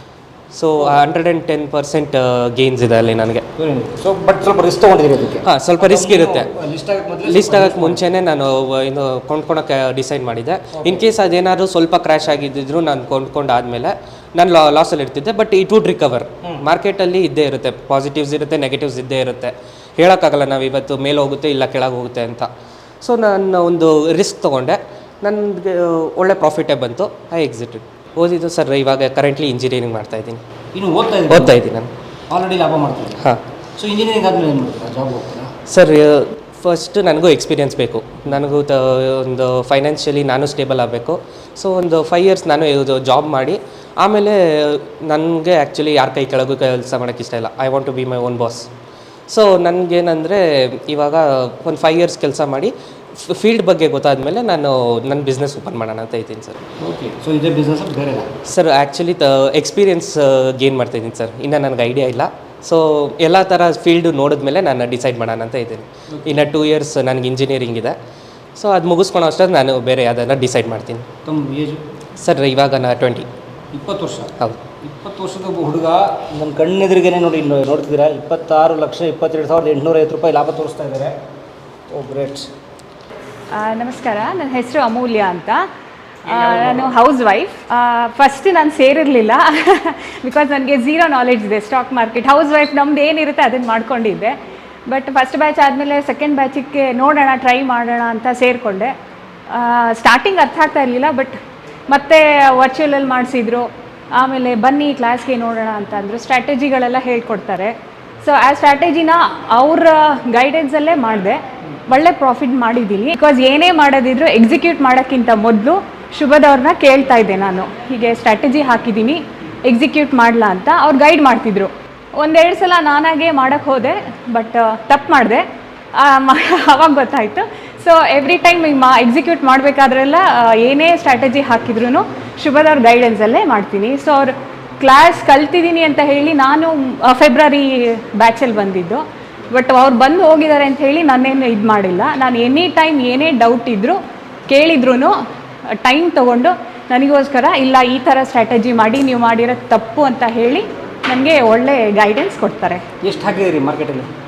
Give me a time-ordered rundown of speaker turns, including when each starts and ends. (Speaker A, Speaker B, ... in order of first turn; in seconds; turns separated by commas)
Speaker A: 0.5-3.4, Speaker B: 3.6-8.0, Speaker A: 5.4-6.5, Speaker A: 7.2-22.5, Speaker B: 10.8-11.1, Speaker A: 23.0-30.4, Speaker B: 30.7-31.6, Speaker A: 31.3-31.9, Speaker B: 32.3-33.1, Speaker B: 33.8-35.5, Speaker A: 35.7-48.7, Speaker A: 49.3-52.7, Speaker A: 53.3-56.6, Speaker B: 56.8-58.3, Speaker A: 58.5-67.9, Speaker A: 68.6-71.0, Speaker B: 71.2-71.8, Speaker A: 72.2-73.3, Speaker B: 73.7-74.3, Speaker B: 74.8-81.1, Speaker B: 81.9-82.5, Speaker C: 83.5-85.6, Speaker B: 86.2-86.9, Speaker C: 86.5-94.3, Speaker C: 94.9-98.9, Speaker C: 99.5-101.3, Speaker C: 101.9-103.6, Speaker C: 104.2-111.4, Speaker C: 111.9-125.4, Speaker C: 126.0-145.1, Speaker C: 145.8-152.8, Speaker B: 153.0-154.1